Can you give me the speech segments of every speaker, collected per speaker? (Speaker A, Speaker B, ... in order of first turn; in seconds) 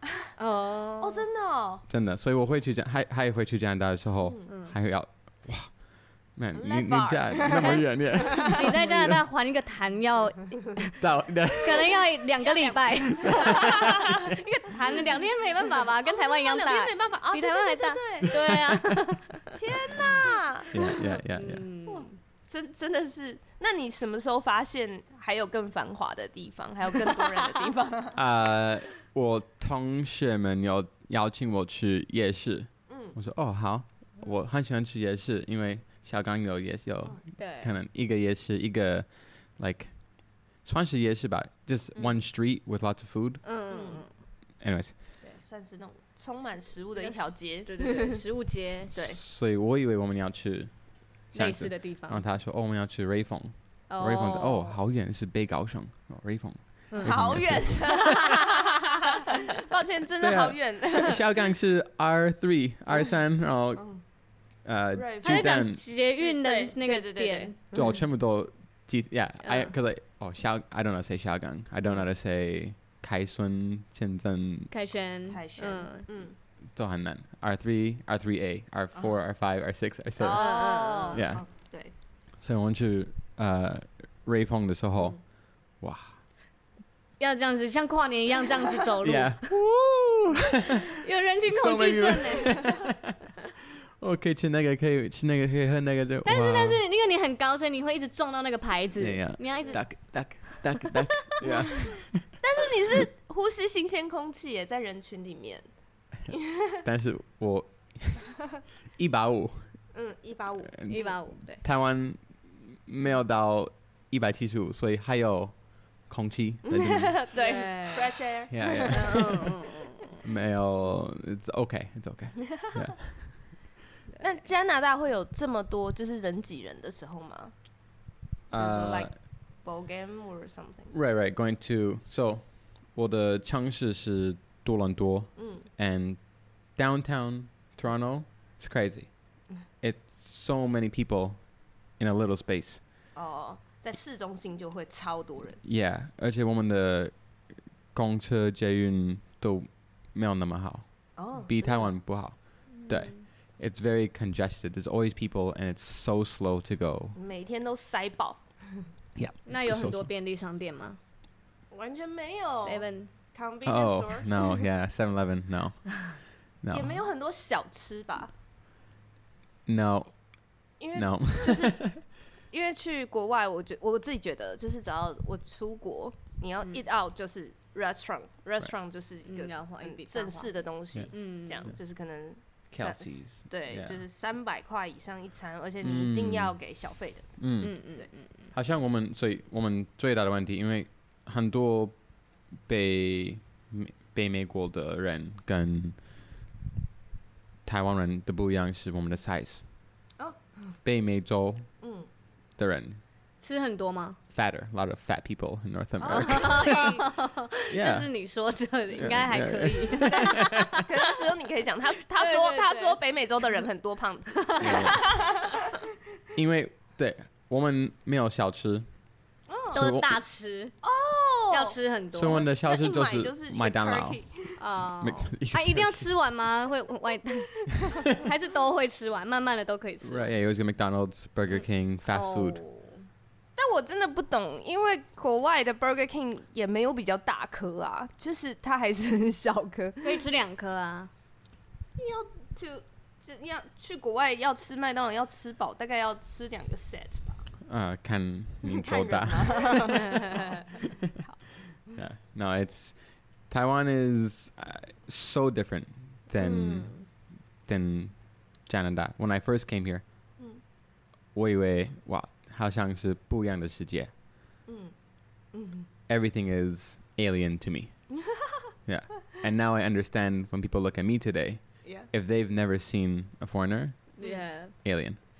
Speaker A: 0.4-1.2, 4.5-4.7, 7.5-11.0, 11.6-19.5, 20.8-22.1, 37.4-37.8, 43.4-44.1, 47.0-49.0, 51.3-52.2, 53.9-54.8, 56.9-57.2, 65.2-67.6, 69.4-69.7, 74.7-76.1, 80.2-81.2, 87.2-89.6, 91.0-92.8, 96.2-101.5, 110.9-111.6, 117.3-118.3, 118.9-120.0, 124.1-124.4, 152.7-153.3, 159.4-161.0, 162.6-163.1, 179.2-181.7, 187.6-188.5, 203.4-204.2, 206.1-210.8, 212.2-213.0, 214.4-215.3, 219.7-220.8, 221.5-222.4, 224.6-230.3, 231.5-233.1, 240.0-241.1, 256.4-257.0, 274.2-274.8
Speaker B: 1.0-1.8, 4.2-4.5, 6.5-8.9, 12.4-14.1, 15.8-18.5, 19.5-21.0, 21.8-28.2, 32.9-33.1, 43.7-44.0, 45.4-48.2, 48.9-49.2, 57.0-61.2, 63.8-64.0, 64.9-68.0, 75.3-76.4, 80.2-81.9, 99.5-99.8, 101.4-105.7, 106.3-106.8, 109.9-111.2, 116.6-119.5, 124.2-127.5, 128.5-130.9, 135.3-135.7, 143.1-145.6, 151.1-151.9, 157.2-158.9, 161.7-164.3, 166.7-168.3, 170.8-187.4, 200.2-200.8, 201.8-202.1, 206.0-207.1, 210.0-215.5, 219.5-219.8, 220.8-224.6, 233.6-240.2, 241.9-247.5, 248.6-251.5, 264.6-264.9, 265.5-265.9, 271.8-272.1, 274.2-274.5
Speaker C: 1.9-9.2, 11.0-12.0, 20.7-21.6, 28.1-43.5, 44.6-45.0, 49.1-58.2, 60.2-65.8, 67.7-74.7, 76.7-81.8, 82.3-86.2, 89.0-90.4, 91.5-93.1, 94.0-96.8, 99.0-102.4, 106.8-109.9, 110.7-117.2, 118.5-119.5, 120.2-123.6, 128.5-129.2, 130.9-142.8, 145.6-157.2, 159.2-160.1, 163.6-167.0, 169.7-171.9, 182.7-184.0, 185.8-186.6, 187.4-187.8, 188.5-196.1, 197.6-199.7, 200.8-201.8, 202.6-203.0, 204.3-206.8, 207.7-208.1, 208.9-210.8, 214.6-215.0, 216.3-219.0, 219.7-220.2, 222.1-224.2, 225.0-226.1, 230.0-232.6, 247.7-250.1, 251.9-260.0, 261.3-264.1, 266.1-268.2, 268.8-275.2